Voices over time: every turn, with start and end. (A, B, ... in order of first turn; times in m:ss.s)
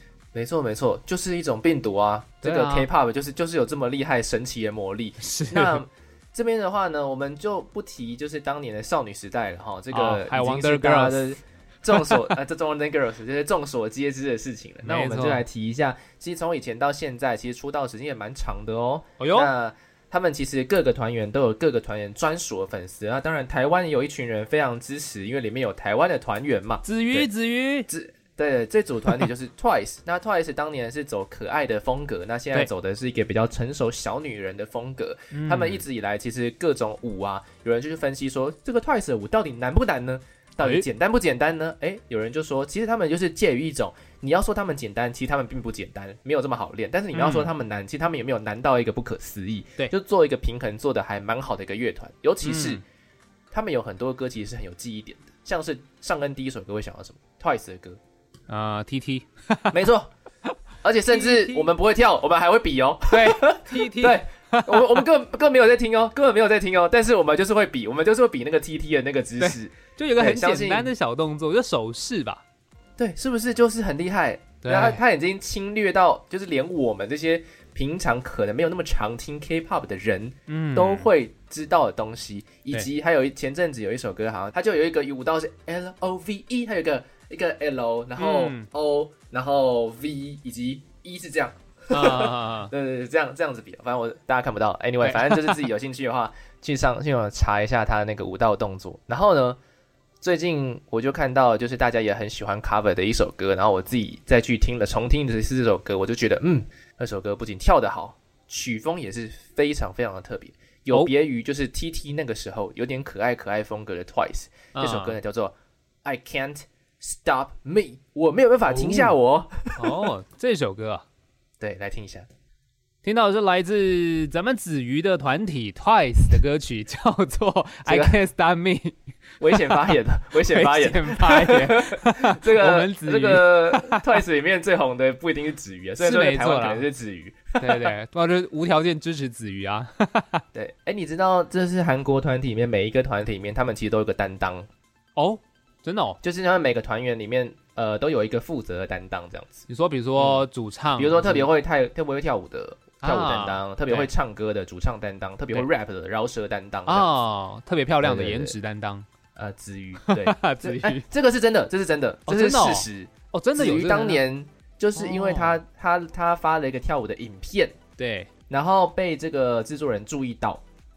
0:00.3-0:27.3 A
0:02.4-0:02.9 B
0:05.2-0:05.8 B
0:09.9-0:11.2 B
0:11.9-0:12.3 B
0:14.8-0:15.4 B
0:19.2-0:19.5 B
0:26.8-0:27.9 B
0:27.9-0:52.8 A
0:35.3-0:35.8 B
0:40.6-0:40.8 B
0:47.1-0:47.5 B
0:52.4-0:52.8 B
0:53.5-0:58.0 A
0:58.5-0:59.8 B
0:59.7-1:00.1 A
1:00.8-1:10.9 A
1:01.1-1:01.7 B
1:03.1-1:05.0 B
1:09.4-1:12.4 B
1:13.0-1:39.6 A
1:14.6-1:15.0 B
1:20.5-1:21.1 B
1:28.2-1:28.7 B
1:31.9-1:32.7 B
1:35.0-1:35.7 B
1:40.2-2:00.0 A
1:54.7-1:55.2 B
1:58.7-1:59.2 B
1:59.8-2:01.0 B
2:01.6-2:02.3 A
2:03.0-2:09.0 B
2:07.9-2:08.2 A
2:09.4-2:17.9 A
2:09.5-2:09.9 B
2:10.4-2:14.0 B
2:16.0-2:16.8 B
2:17.6-2:20.4 B
2:20.5-2:24.7 A
2:25.2-2:26.2 B
2:26.2-2:29.6 A
2:29.7-2:31.5 B
2:30.2-2:30.4 A
2:31.0-2:37.1 A
2:33.0-2:34.1 B
2:36.9-2:39.1 B
2:38.0-2:38.6 A
2:39.3-2:47.7 A
2:40.0-2:41.0 B
2:42.3-2:44.2 B
2:45.0-2:45.6 B
2:48.0-2:48.3 B
2:48.5-2:50.6 A